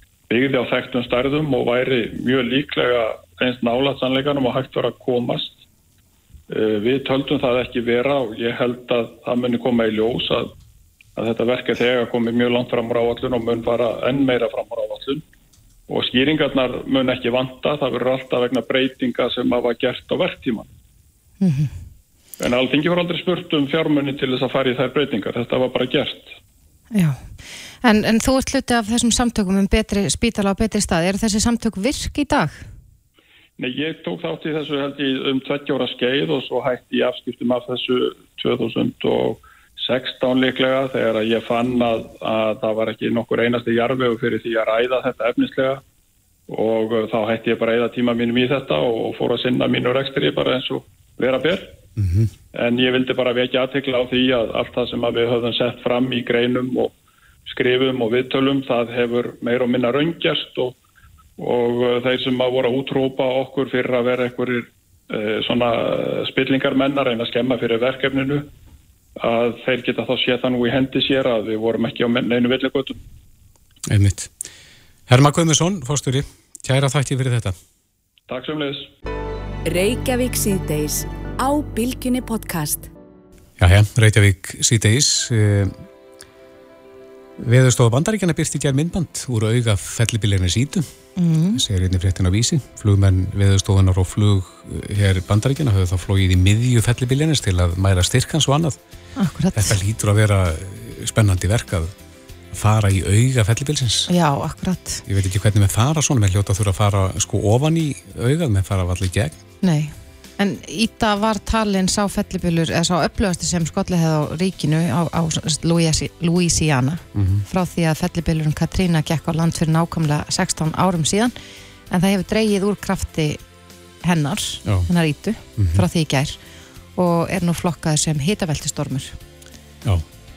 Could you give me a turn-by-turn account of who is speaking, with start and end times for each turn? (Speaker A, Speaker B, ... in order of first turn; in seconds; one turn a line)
Speaker A: 0.3-5.6
Speaker A: 6.5-10.5
Speaker A: 11.2-15.2
Speaker A: 15.9-20.7
Speaker B: 21.4-21.7
Speaker A: 22.4-26.4
Speaker B: 26.9-32.7
Speaker A: 33.6-45.8
Speaker A: 46.5-51.8
Speaker C: 52.0-52.3
Speaker A: 52.5-56.9
Speaker A: 57.5-60.8
Speaker A: 61.4-68.5
Speaker A: 69.2-73.0
Speaker C: 73.9-74.3
Speaker C: 75.1-77.5
Speaker A: 78.3-78.9
Speaker D: 79.6-82.9
Speaker C: 83.6-85.7
Speaker C: 87.4-90.9
Speaker B: 91.2-91.6
Speaker C: 91.5-98.8
Speaker B: 99.2-99.8
Speaker C: 99.5-101.9
Speaker C: 102.5-104.1
Speaker B: 104.1-105.0
Speaker C: 105.1-109.4
Speaker B: 109.6-121.3
Speaker C: 117.1-117.4
Speaker B: 121.9-123.4
Speaker B: 124.0-126.4
Speaker C: 125.6-125.8
Speaker B: 127.0-129.2